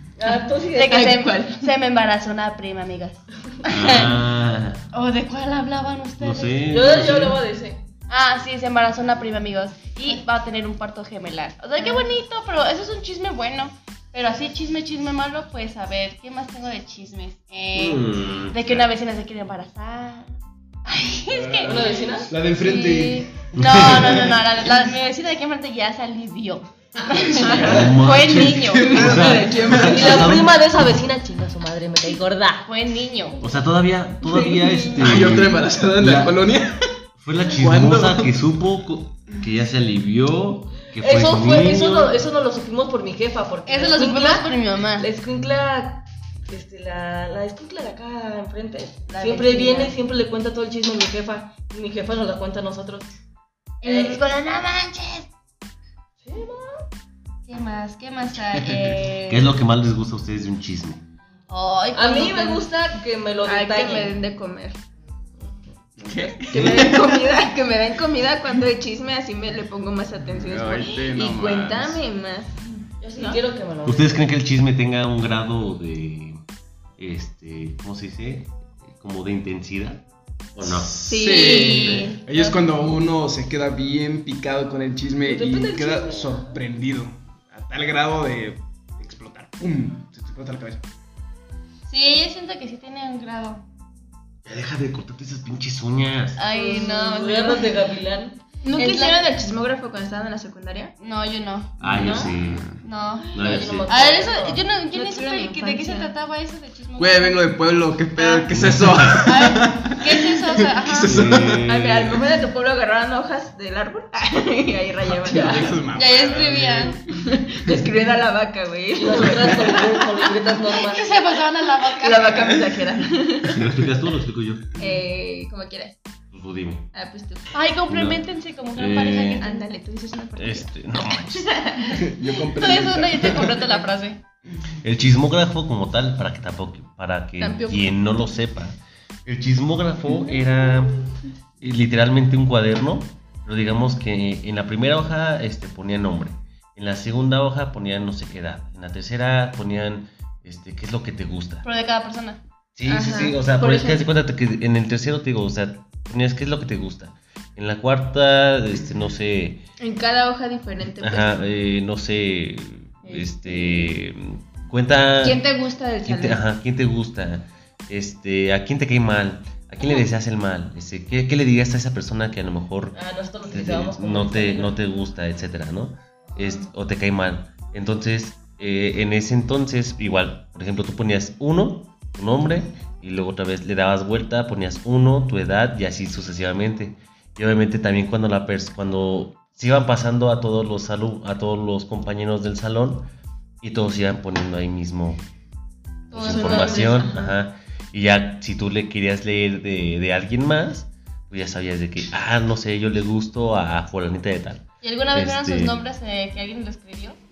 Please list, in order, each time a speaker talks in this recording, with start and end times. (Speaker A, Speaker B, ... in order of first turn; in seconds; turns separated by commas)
Speaker A: 0.2-1.2, Speaker B: 0.3-4.2, Speaker C: 0.8-1.7, Speaker D: 3.7-4.8, Speaker B: 4.9-6.7, Speaker D: 6.2-7.4, Speaker A: 6.7-7.8, Speaker B: 8.1-29.2, Speaker D: 17.7-18.8, Speaker E: 21.3-24.4, Speaker A: 21.6-22.3, Speaker D: 23.6-24.2, Speaker E: 27.1-30.4, Speaker D: 27.4-30.8, Speaker A: 28.9-32.7, Speaker B: 32.6-33.4, Speaker D: 33.4-36.4, Speaker E: 34.9-36.9, Speaker D: 37.2-42.2, Speaker E: 37.5-38.4, Speaker A: 41.0-53.1, Speaker B: 43.6-45.1, Speaker B: 49.1-49.9, Speaker B: 53.8-55.3, Speaker A: 53.8-54.2, Speaker A: 56.2-56.8, Speaker B: 57.5-59.5, Speaker D: 59.3-61.0, Speaker B: 61.5-62.7, Speaker A: 61.9-64.2, Speaker C: 63.4-64.8, Speaker E: 66.0-67.1, Speaker C: 66.5-72.6, Speaker E: 70.3-72.0, Speaker A: 73.0-74.2, Speaker D: 73.8-76.4, Speaker D: 77.0-81.0, Speaker E: 80.6-90.8, Speaker C: 81.0-82.1, Speaker B: 81.2-82.5, Speaker A: 85.2-86.6, Speaker B: 91.9-93.6, Speaker D: 94.4-96.4, Speaker B: 96.4-97.7, Speaker A: 96.5-98.4, Speaker C: 98.6-100.9, Speaker B: 98.7-99.2, Speaker B: 101.0-102.3, Speaker D: 101.8-102.7, Speaker E: 101.8-102.8, Speaker C: 101.9-102.3, Speaker B: 102.8-107.5, Speaker D: 103.3-103.9, Speaker A: 103.3-104.6, Speaker C: 104.9-106.1, Speaker E: 107.0-111.7, Speaker B: 108.1-108.5, Speaker D: 108.6-109.3, Speaker B: 109.2-111.4, Speaker D: 111.0-112.2, Speaker C: 111.6-115.8, Speaker E: 115.1-117.0, Speaker B: 115.9-117.0, Speaker C: 117.2-120.1, Speaker A: 119.0-121.1, Speaker B: 120.8-122.5, Speaker C: 122.0-123.6, Speaker D: 123.5-124.8, Speaker C: 124.8-126.0, Speaker D: 126.3-126.9, Speaker C: 126.9-127.5, Speaker B: 127.5-129.7, Speaker D: 127.9-128.2, Speaker D: 128.7-129.4, Speaker C: 129.4-132.2, Speaker D: 130.3-131.6, Speaker E: 131.9-133.7, Speaker B: 132.6-134.2, Speaker D: 134.8-141.1, Speaker C: 137.4-137.9, Speaker D: 141.6-151.6, Speaker B: 151.6-152.4, Speaker D: 152.8-159.6, Speaker C: 152.8-154.1, Speaker C: 159.8-161.4, Speaker D: 161.0-165.4, Speaker A: 163.1-163.9, Speaker C: 165.2-166.4, Speaker D: 166.0-172.9, Speaker A: 172.9-174.8, Speaker D: 173.5-193.1, Speaker D: 193.6-195.2, Speaker D: 196.1-205.8, Speaker B: 196.1-197.1, Speaker C: 196.2-196.9, Speaker A: 196.2-197.2, Speaker B: 204.8-207.2